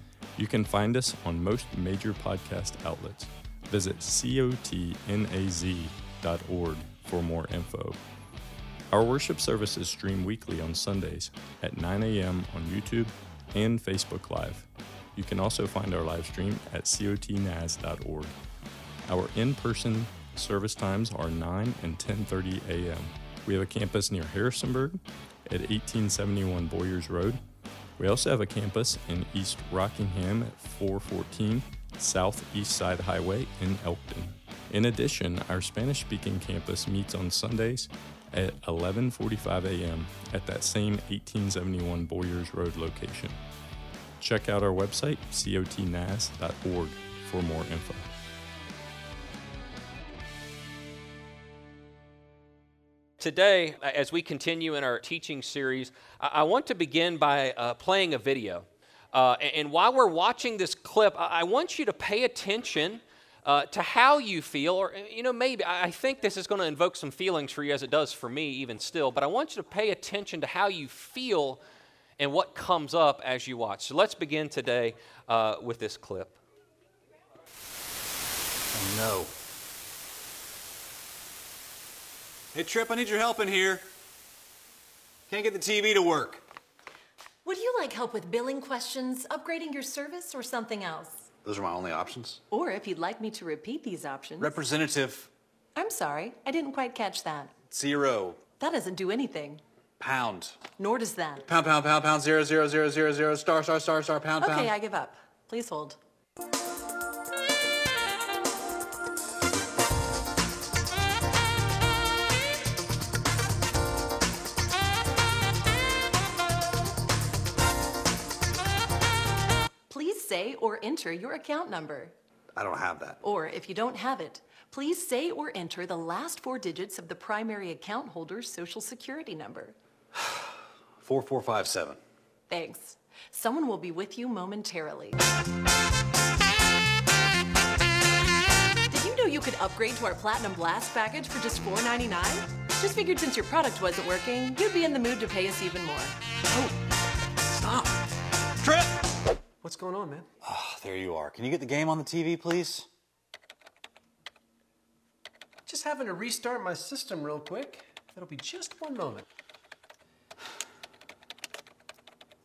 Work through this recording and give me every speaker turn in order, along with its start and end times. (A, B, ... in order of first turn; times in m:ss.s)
0:00.4-0:08.0 A
0:08.9-0:18.3 A
0:19.0-0:27.4 A
0:28.0-0:43.4 A
0:44.2-0:48.1 A
0:53.2-1:11.6 B
1:12.2-1:16.4 B
1:18.7-1:19.3 C
1:22.5-1:23.9 C
1:25.3-1:26.4 C
1:27.4-1:31.3 D
1:31.4-1:32.4 C
1:32.5-1:34.5 D
1:34.4-1:35.3 C
1:35.8-1:37.5 D
1:37.7-1:38.4 C
1:38.6-1:39.6 D
1:40.0-1:40.6 C
1:40.8-1:41.4 D
1:41.4-1:44.7 C
1:44.4-1:46.0 D
1:59.9-2:02.1 D
2:02.6-2:03.2 C
2:03.2-2:09.8 D
2:10.1-2:12.0 C
2:12.5-2:15.2 D
2:18.9-2:26.2 D
2:27.5-2:28.0 C
2:28.6-2:29.0 C
2:29.6-2:30.3 E
2:30.4-2:32.9 C
2:35.7-2:39.2 E